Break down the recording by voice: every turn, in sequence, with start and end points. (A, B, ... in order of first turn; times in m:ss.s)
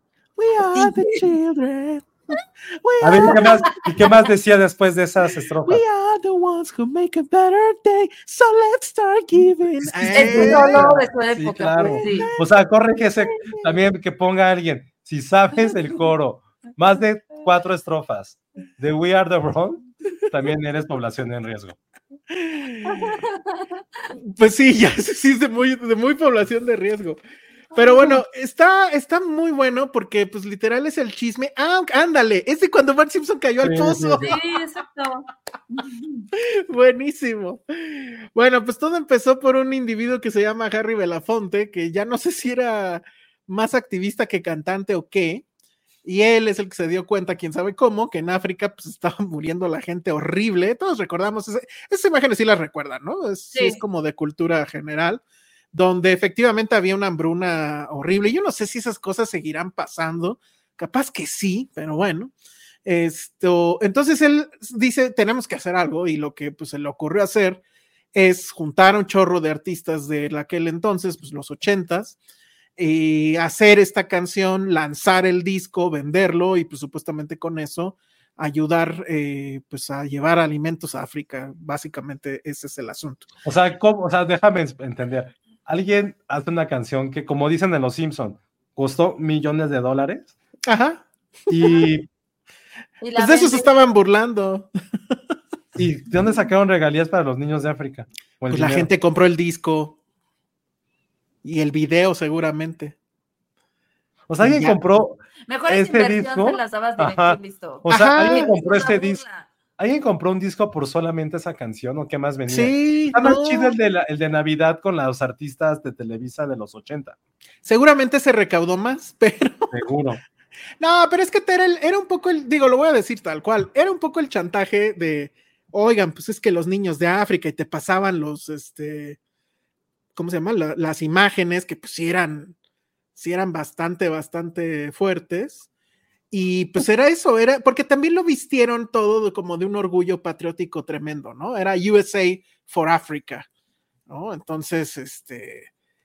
0:00.4-0:03.8 A
0:00.7-0:01.3 B
0:03.0-0:05.8 C
0:05.6-0:10.9 A
0:09.8-0:21.8 C
0:10.1-0:12.3 B
0:11.8-0:12.4 A
0:22.3-0:23.2 A
0:22.8-0:23.8 B
0:24.1-0:27.2 A
0:27.7-0:34.4 A
0:27.8-0:28.2 B
0:33.6-0:34.3 C
0:34.2-0:36.3 B
0:36.7-0:45.4 A
0:46.0-1:02.3 A
0:53.5-0:53.8 B
1:02.8-1:07.6 A
1:08.1-1:12.2 A
1:12.8-1:23.2 A
1:23.4-1:30.3 C
1:30.7-1:31.8 A
1:31.5-1:32.1 C
1:33.0-1:33.8 B
1:33.1-1:34.7 A
1:35.8-1:38.9 C
1:38.5-1:40.0 A
1:41.4-1:42.9 A
1:44.3-1:49.2 C
1:44.4-1:44.8 A
1:45.5-1:49.5 B
1:47.9-1:48.5 A
1:49.8-1:57.2 C
1:52.5-1:53.8 A
1:57.6-1:59.8 A
1:59.7-2:00.2 C
2:00.8-2:09.2 A
2:10.2-2:12.5 A
2:13.1-2:15.7 A
2:16.3-2:23.4 A
2:24.1-2:25.7 A